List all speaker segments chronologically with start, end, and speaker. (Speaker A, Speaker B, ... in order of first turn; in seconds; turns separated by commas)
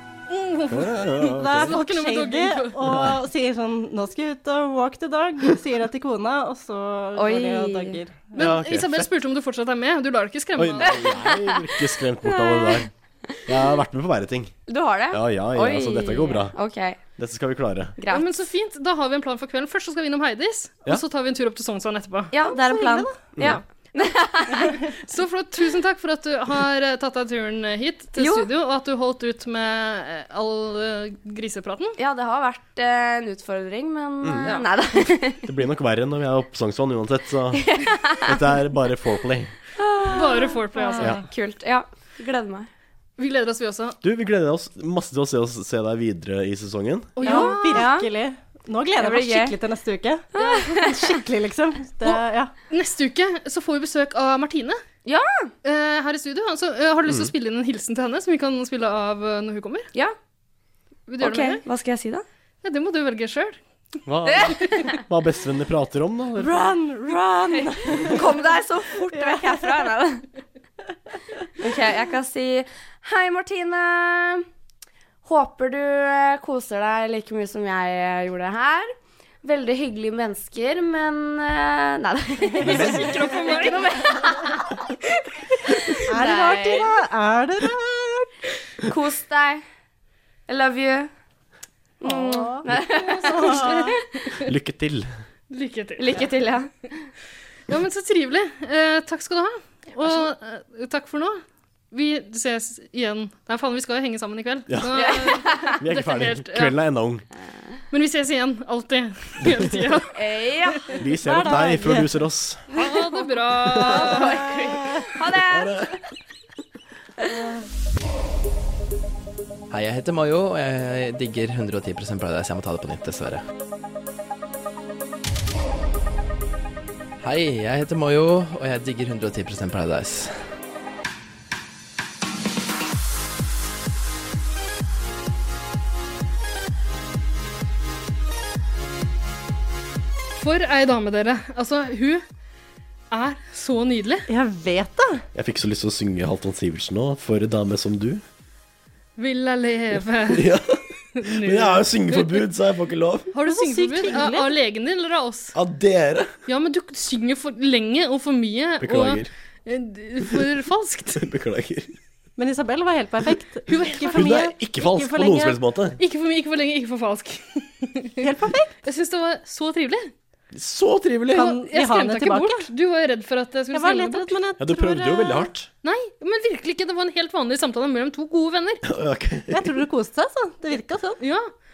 Speaker A: 0.3-2.8, Speaker B: 0.7-1.8, Speaker C: 1.2-8.3, Speaker B: 2.9-3.1, Speaker D: 7.2-8.0, Speaker A: 8.3-11.1, Speaker B: 8.4-9.1, Speaker B: 10.6-12.9, Speaker D: 10.9-11.5, Speaker D: 12.2-12.9, Speaker B: 13.4-14.5, Speaker D: 14.7-17.0, Speaker B: 15.1-16.6, Speaker B: 17.2-17.9, Speaker D: 18.0-18.4, Speaker A: 18.1-22.3, Speaker D: 22.3-24.8, Speaker C: 22.4-23.1, Speaker C: 24.5-24.9, Speaker A: 25.0-31.9, Speaker D: 28.2-28.5, Speaker D: 32.0-35.5, Speaker B: 34.2-34.5, Speaker B: 35.5-39.5, Speaker D: 37.5-38.5, Speaker D: 39.8-42.7, Speaker A: 40.1-41.2, Speaker A: 43.2-44.0, Speaker B: 44.0-47.1, Speaker A: 47.1-47.9, Speaker C: 47.2-52.5, Speaker D: 47.3-48.1, Speaker D: 49.0-49.5, Speaker D: 50.3-51.2, Speaker A: 52.0-54.8, Speaker D: 55.0-55.5, Speaker A: 55.6-59.9, Speaker A: 61.1-61.6, Speaker D: 61.2-62.2, Speaker A: 62.6-63.6, Speaker B: 64.0-66.5, Speaker D: 64.2-65.0, Speaker C: 66.4-68.4, Speaker D: 67.0-70.2, Speaker C: 69.0-70.0, Speaker D: 71.6-74.4, Speaker D: 75.2-78.9, Speaker D: 79.4-84.7, Speaker C: 82.6-84.5, Speaker A: 82.6-84.0, Speaker D: 85.7-87.0, Speaker C: 86.0-88.3, Speaker D: 88.9-89.6, Speaker D: 90.5-91.1, Speaker D: 92.0-94.0, Speaker C: 92.0-94.0, Speaker A: 92.7-94.5, Speaker B: 94.4-95.1, Speaker A: 95.5-96.4, Speaker D: 96.0-96.7, Speaker A: 97.7-106.8, Speaker D: 100.0-100.3, Speaker B: 104.7-107.2, Speaker D: 104.9-105.8, Speaker A: 107.9-110.5, Speaker D: 110.1-111.0, Speaker B: 111.0-112.6, Speaker C: 111.2-112.1, Speaker A: 112.7-114.4, Speaker B: 113.7-114.0, Speaker D: 113.8-116.0, Speaker C: 113.9-115.1, Speaker B: 115.3-116.0, Speaker C: 117.3-117.6, Speaker E: 119.7-123.4, Speaker E: 127.2-130.3, Speaker A: 140.4-142.2, Speaker A: 143.1-144.2, Speaker C: 144.3-145.2, Speaker B: 145.3-148.2, Speaker A: 149.2-150.6, Speaker B: 150.3-153.3, Speaker A: 151.2-152.5, Speaker A: 153.3-155.5, Speaker C: 153.4-154.5, Speaker B: 155.5-156.3, Speaker A: 156.5-161.2, Speaker B: 158.8-159.3, Speaker B: 161.2-161.9, Speaker C: 162.4-165.6, Speaker A: 163.7-164.4, Speaker B: 164.1-166.0, Speaker A: 166.0-168.3, Speaker C: 168.2-168.7, Speaker A: 168.8-170.1, Speaker B: 170.5-171.5, Speaker C: 171.3-172.7, Speaker A: 171.3-174.4, Speaker C: 173.7-175.5, Speaker B: 174.6-175.7, Speaker A: 175.8-178.8, Speaker B: 178.9-179.7, Speaker C: 179.5-181.2, Speaker A: 181.2-181.5